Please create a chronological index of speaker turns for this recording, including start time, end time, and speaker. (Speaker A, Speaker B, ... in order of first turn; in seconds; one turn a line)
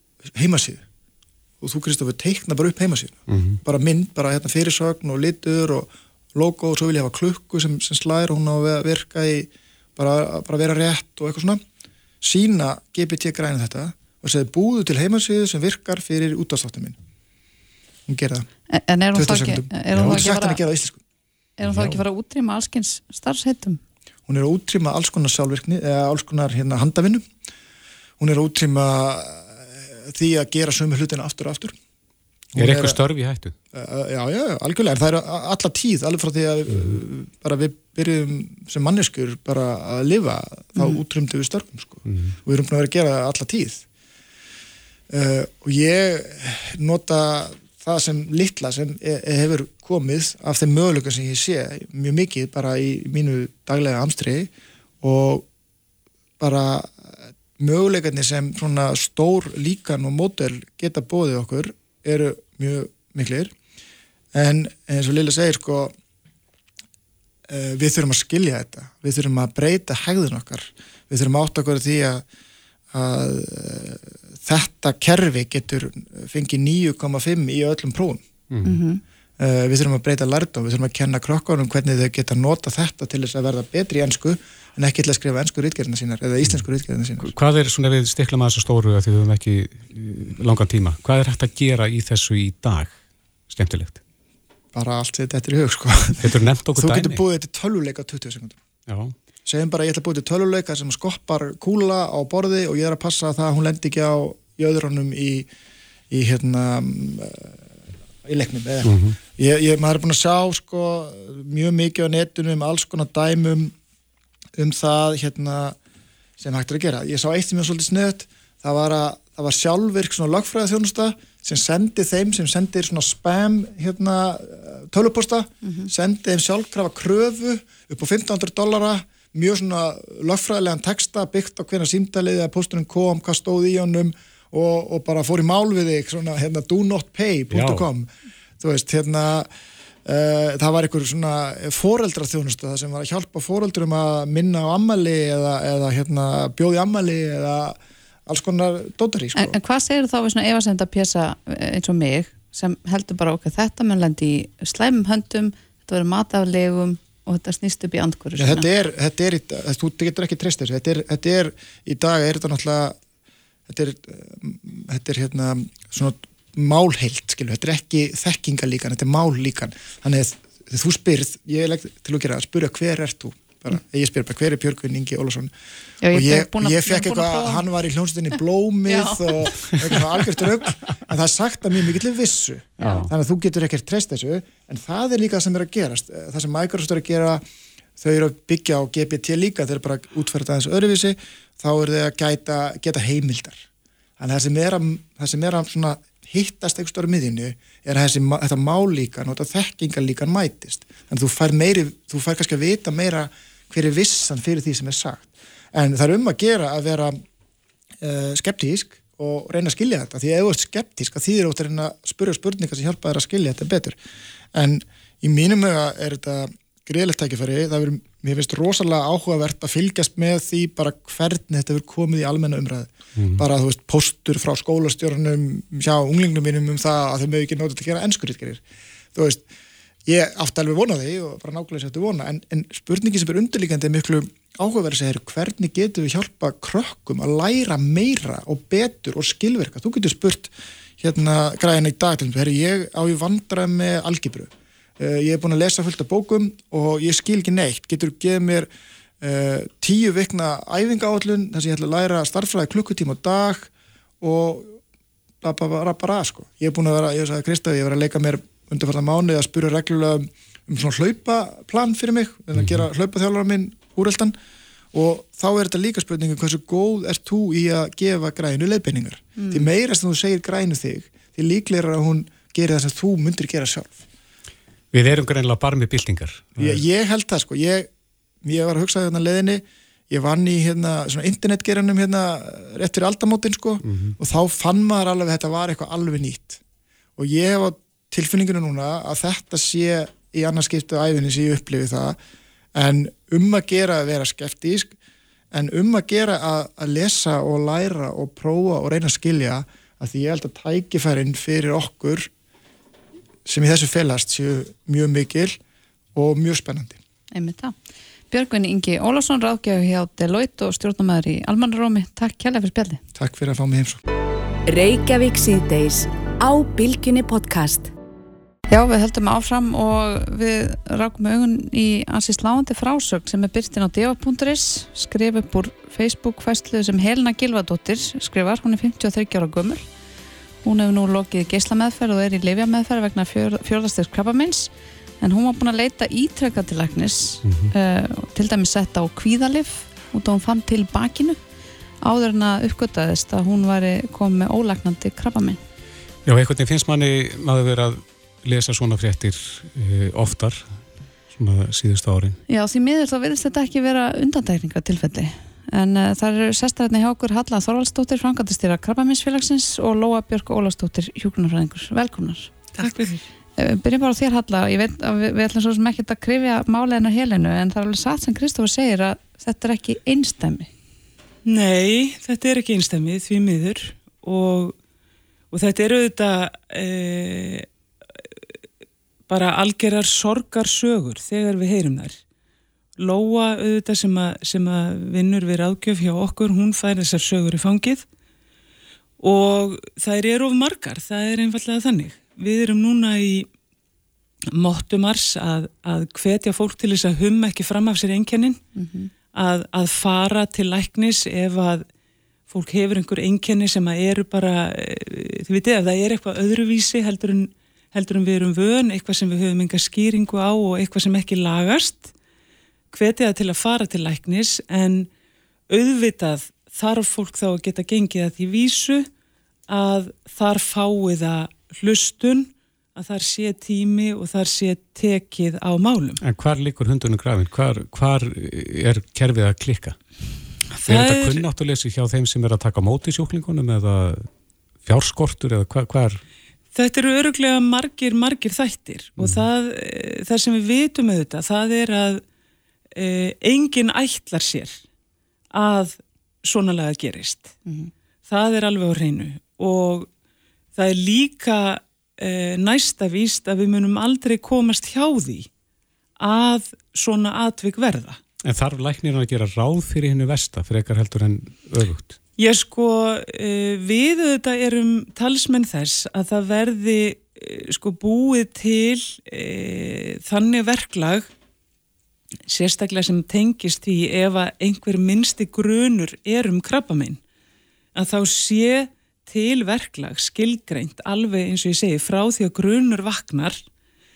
Speaker A: 0.3-0.8
Speaker A: 1.6-11.6
Speaker B: 3.3-3.6
Speaker A: 12.2-16.9
Speaker A: 18.1-18.5
Speaker C: 18.7-20.6
Speaker A: 19.1-21.0
Speaker C: 21.6-23.8
Speaker B: 21.6-22.0
Speaker A: 24.3-27.2
Speaker A: 28.2-31.7
Speaker A: 32.5-33.0
Speaker B: 32.6-33.5
Speaker A: 33.7-43.8
Speaker B: 42.1-42.4
Speaker A: 45.1-54.5
Speaker A: 55.0-55.5
Speaker A: 56.4-63.5
Speaker A: 64.3-65.9
Speaker A: 67.5-72.2
Speaker A: 72.9-78.2
Speaker B: 78.5-78.8
Speaker C: 78.6-79.0
Speaker A: 79.4-87.3
Speaker B: 87.2-92.9
Speaker B: 93.5-94.0
Speaker A: 94.7-98.6
Speaker B: 96.2-97.2
Speaker B: 98.9-99.2
Speaker A: 99.5-105.5
Speaker A: 106.1-107.5
Speaker A: 108.2-113.7
Speaker B: 108.8-109.2
Speaker A: 114.6-115.8
Speaker A: 116.4-138.1
Speaker C: 125.6-125.9
Speaker B: 137.5-137.9
Speaker A: 138.6-139.5
Speaker A: 140.1-149.6
Speaker C: 149.3-158.7
Speaker A: 158.4-163.0
Speaker A: 163.7-175.5
Speaker C: 176.0-177.6
Speaker A: 176.1-187.4
Speaker C: 178.9-179.2
Speaker C: 182.8-183.1
Speaker A: 188.0-193.6
Speaker A: 194.2-207.2
Speaker A: 208.0-214.0
Speaker A: 214.5-228.6
Speaker B: 223.2-223.4
Speaker A: 229.1-229.4
Speaker A: 230.1-248.7
Speaker A: 249.2-253.7
Speaker A: 254.2-254.8
Speaker A: 255.4-264.4
Speaker B: 262.6-262.8
Speaker A: 264.9-274.0
Speaker C: 269.4-269.7
Speaker B: 274.9-276.8
Speaker A: 276.6-277.9
Speaker A: 278.4-286.6
Speaker B: 283.8-284.2
Speaker A: 287.2-292.2
Speaker A: 292.7-294.9
Speaker A: 295.5-302.3
Speaker A: 303.5-305.6
Speaker A: 306.1-307.0
Speaker C: 307.3-307.8
Speaker C: 308.3-313.0
Speaker A: 313.2-314.0
Speaker D: 314.7-317.9
Speaker C: 318.7-329.9
Speaker C: 330.6-341.4
Speaker B: 337.4-337.7
Speaker C: 342.0-345.6
Speaker B: 346.3-350.8
Speaker B: 351.3-352.4
Speaker C: 352.5-370.7
Speaker E: 371.4-374.8
Speaker E: 375.5-377.7
Speaker E: 379.3-382.2
Speaker E: 383.0-388.1
Speaker E: 389.2-393.5
Speaker E: 394.5-398.6
Speaker C: 398.8-399.1
Speaker E: 399.3-401.9
Speaker E: 402.5-412.1
Speaker E: 412.9-415.1
Speaker E: 415.7-419.1
Speaker E: 419.7-426.2
Speaker B: 426.2-430.0
Speaker E: 430.8-431.4
Speaker B: 430.9-434.3
Speaker B: 434.8-436.2
Speaker E: 436.7-442.2
Speaker B: 439.2-439.5
Speaker E: 442.9-444.8
Speaker E: 445.5-447.6
Speaker C: 447.7-447.9
Speaker E: 448.3-450.1
Speaker E: 450.8-455.5
Speaker E: 456.2-458.2
Speaker B: 458.4-462.2
Speaker E: 462.4-471.3
Speaker E: 472.5-477.2
Speaker E: 477.9-483.6